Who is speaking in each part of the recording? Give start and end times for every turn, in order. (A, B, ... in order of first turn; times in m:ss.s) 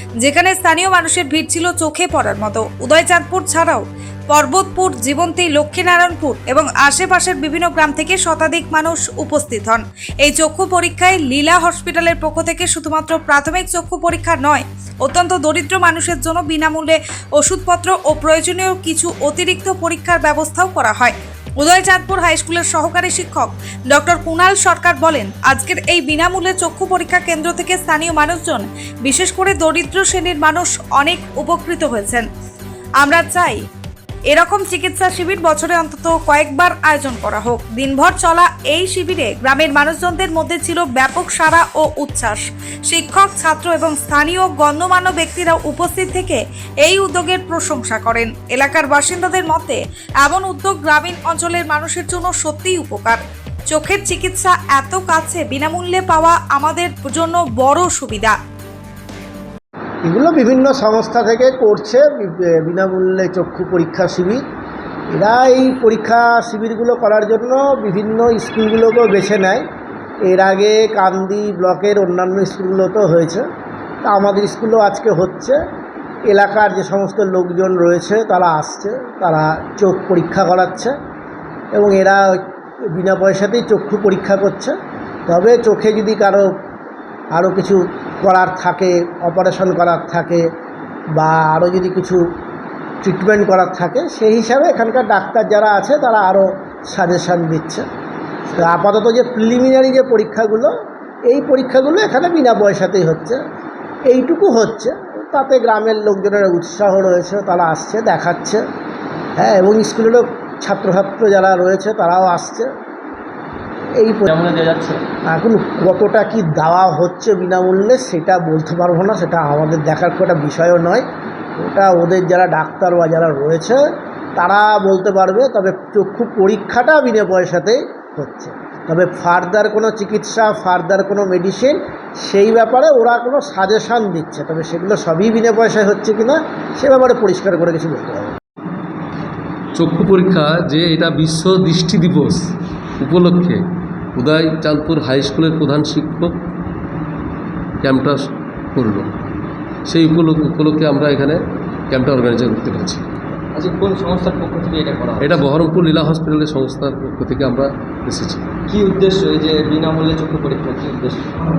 0:00.2-0:32.3 A
0:33.0-0:33.6 A
0:34.3-0:58.4 A
1:00.0-1:04.4 B
1:05.1-1:09.6 B
1:10.2-1:13.4 B
1:14.0-1:15.6 B
1:16.3-1:20.9 B
1:21.7-1:24.8 B
1:25.3-1:26.5 B
1:27.3-1:30.5 B
1:31.2-1:32.2 B
1:33.0-1:37.8 B
1:38.5-1:40.7 B
1:41.3-1:43.4 B
1:44.1-1:48.6 B
1:49.4-1:52.7 B
1:54.0-1:54.3 B
1:54.3-1:55.0 C
1:55.3-2:01.1 B
2:01.6-2:03.8 B
2:04.4-2:18.3 B
2:19.8-2:22.5 D
2:23.0-2:23.6 D
2:24.2-2:26.3 D
2:27.8-2:29.1 D
2:29.9-2:33.1 D
2:33.5-2:35.4 C
2:35.2-2:38.5 D
2:38.7-2:41.3 C